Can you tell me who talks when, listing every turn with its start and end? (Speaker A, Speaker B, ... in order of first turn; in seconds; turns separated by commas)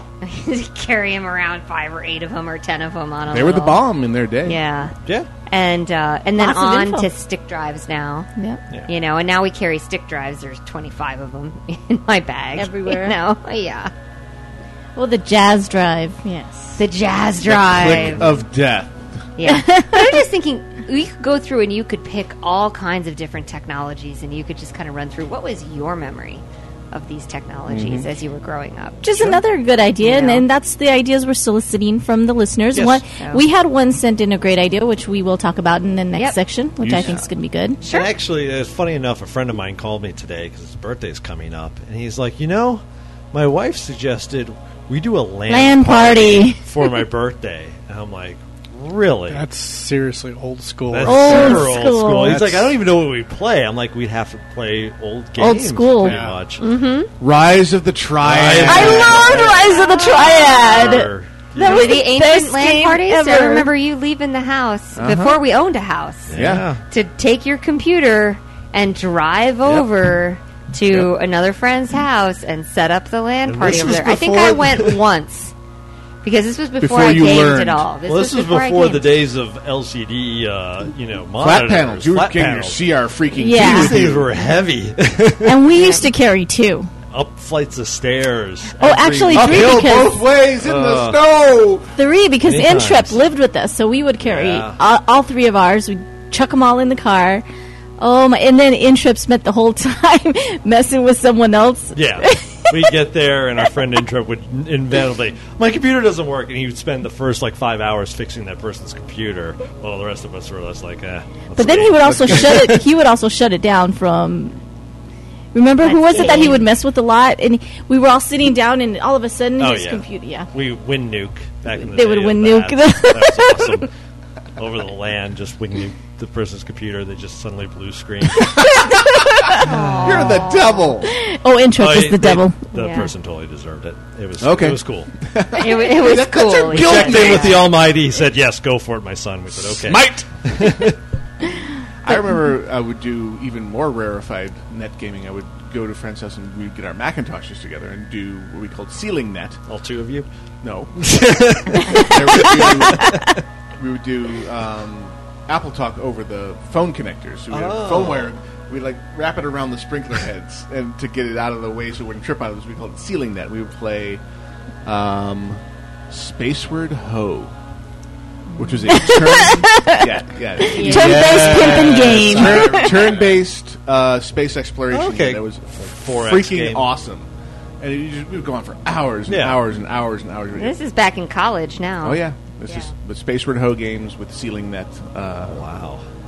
Speaker A: 0.2-3.8, Speaker B: 3.3-4.6, Speaker A: 4.4-4.9, Speaker A: 5.5-8.3, Speaker C: 6.4-7.1, Speaker A: 8.9-13.9, Speaker C: 12.5-13.2, Speaker C: 14.9-16.8, Speaker A: 16.8-18.2, Speaker B: 17.4-19.0, Speaker D: 17.9-18.2, Speaker A: 19.4-29.4, Speaker C: 19.4-20.2, Speaker B: 27.7-28.1, Speaker C: 29.0-37.8, Speaker A: 30.0-30.4, Speaker A: 33.1-33.4, Speaker B: 36.8-37.3, Speaker A: 37.8-38.1, Speaker D: 37.8-49.5, Speaker C: 45.5-46.6, Speaker E: 49.3-51.8, Speaker D: 50.9-56.6, Speaker C: 51.0-52.4, Speaker C: 55.4-56.1, Speaker E: 56.0-56.4, Speaker A: 56.6-57.1, Speaker B: 57.2-59.2, Speaker D: 58.2-62.1, Speaker C: 58.6-63.7, Speaker A: 59.6-60.4, Speaker A: 61.5-75.5, Speaker B: 65.0-65.4, Speaker D: 66.3-66.8, Speaker B: 66.3-66.7, Speaker D: 69.6-69.9, Speaker D: 73.5-75.0, Speaker A: 76.2-79.2, Speaker B: 76.8-77.9, Speaker D: 78.0-82.8, Speaker B: 81.4-84.3, Speaker C: 83.4-83.9, Speaker D: 83.5-85.7, Speaker C: 85.4-86.9, Speaker A: 85.7-86.0, Speaker D: 87.1-89.9, Speaker C: 88.8-90.2, Speaker B: 89.3-91.9, Speaker D: 90.6-91.2, Speaker C: 92.0-97.4, Speaker D: 92.4-93.2, Speaker D: 94.2-94.8, Speaker C: 98.0-102.9, Speaker D: 101.9-112.8, Speaker C: 111.5-114.6, Speaker B: 112.0-112.4, Speaker C: 115.5-120.5, Speaker A: 115.8-116.7, Speaker D: 119.6-123.9, Speaker C: 121.8-123.9, Speaker D: 124.6-128.7, Speaker B: 128.6-129.3, Speaker C: 128.8-129.6, Speaker D: 129.6-130.1, Speaker A: 129.6-130.9, Speaker B: 130.0-131.1, Speaker C: 131.0-132.6, Speaker D: 131.8-135.1, Speaker A: 132.7-133.1, Speaker B: 134.4-137.6, Speaker A: 135.6-137.7, Speaker D: 136.7-141.0, Speaker B: 139.6-140.9, Speaker B: 142.0-149.6, Speaker D: 149.7-150.3, Speaker B: 150.6-153.2, Speaker D: 151.0-153.3, Speaker B: 153.8-164.2, Speaker D: 157.5-158.3, Speaker B: 164.8-167.5, Speaker B: 168.6-177.3, Speaker C: 168.8-170.1, Speaker C: 170.6-173.1, Speaker A: 170.8-171.2, Speaker D: 171.0-172.6, Speaker D: 174.9-176.9, Speaker B: 177.8-180.8, Speaker D: 179.3-179.6, Speaker A: 180.5-182.9, Speaker B: 182.0-185.7, Speaker D: 185.4-186.0